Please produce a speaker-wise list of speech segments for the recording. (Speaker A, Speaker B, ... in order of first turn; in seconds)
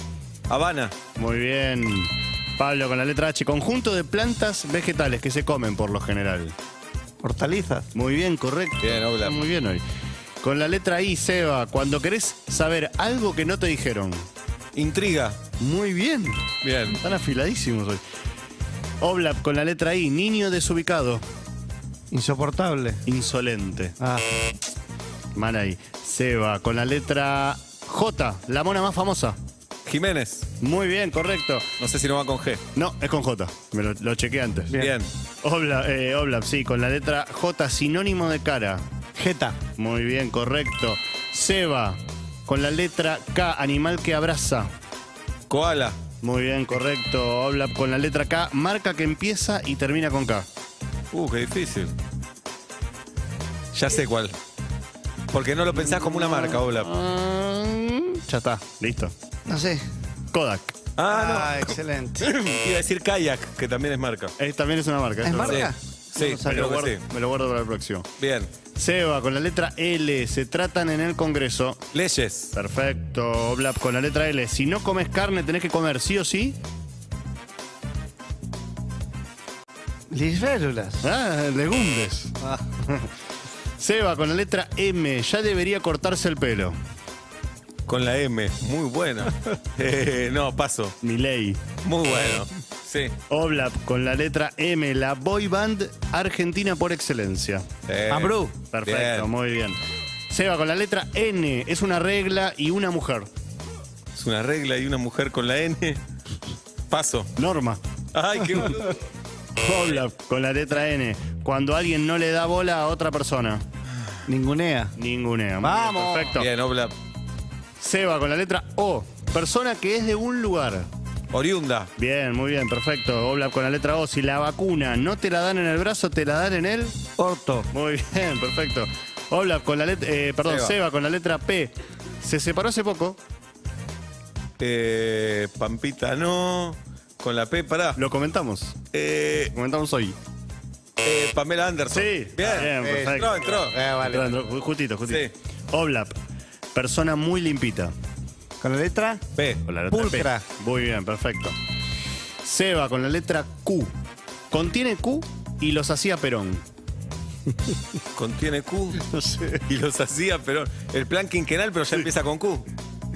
Speaker A: 0.5-0.9, 8.8-9.4, 14.7-15.4, 16.6-17.0, 29.9-30.5, 31.8-32.6, 34.8-35.1, 45.5-46.0, 51.1-51.9, 53.7-54.4, 55.3-56.9, 61.0-64.3, 65.4-67.0, 68.2-68.5, 71.9-72.5, 87.8-90.9, 91.8-93.2, 97.8-99.3, 104.1-106.0, 106.9-107.3, 108.1-109.0, 116.3-116.9, 121.3-121.9, 130.4-130.8, 134.6-138.0, 138.9-139.5, 141.0-143.8, 145.1-145.3, 149.3-149.6, 158.1-159.0, 159.7-162.7
Speaker B: 1.1-6.5, 7.9-9.8, 10.4-14.3, 15.6-18.0, 19.0-21.2, 23.1-23.9, 25.3-29.4, 30.6-31.6, 32.7-34.8, 35.4-38.8, 39.8-44.7, 46.2-50.5, 55.8-59.1, 60.3-60.8, 64.4-68.0, 68.7-71.8, 72.5-76.6, 81.0-82.3, 83.8-86.8, 91.0-91.6, 93.3-97.6, 98.7-99.8, 100.3-103.3, 107.3-107.8, 109.6-113.6, 115.0-116.5, 117.8-120.9, 122.0-127.0, 127.7-133.2, 137.9-138.8, 139.5-140.2, 141.9-143.4, 144.0-146.1, 146.7-147.9, 149.6-151.5, 152.4-153.9, 154.5-156.6
Speaker C: 7.2-7.9, 22.1-23.0, 24.0-24.3, 39.1-39.6, 59.5-59.8, 61.1-62.3, 65.2-66.7, 80.1-81.1, 98.1-98.5, 114.3-114.9, 115.6-116.4, 127.2-127.7, 142.4-144.3, 148.6-149.2, 149.9-150.4, 159.0-159.6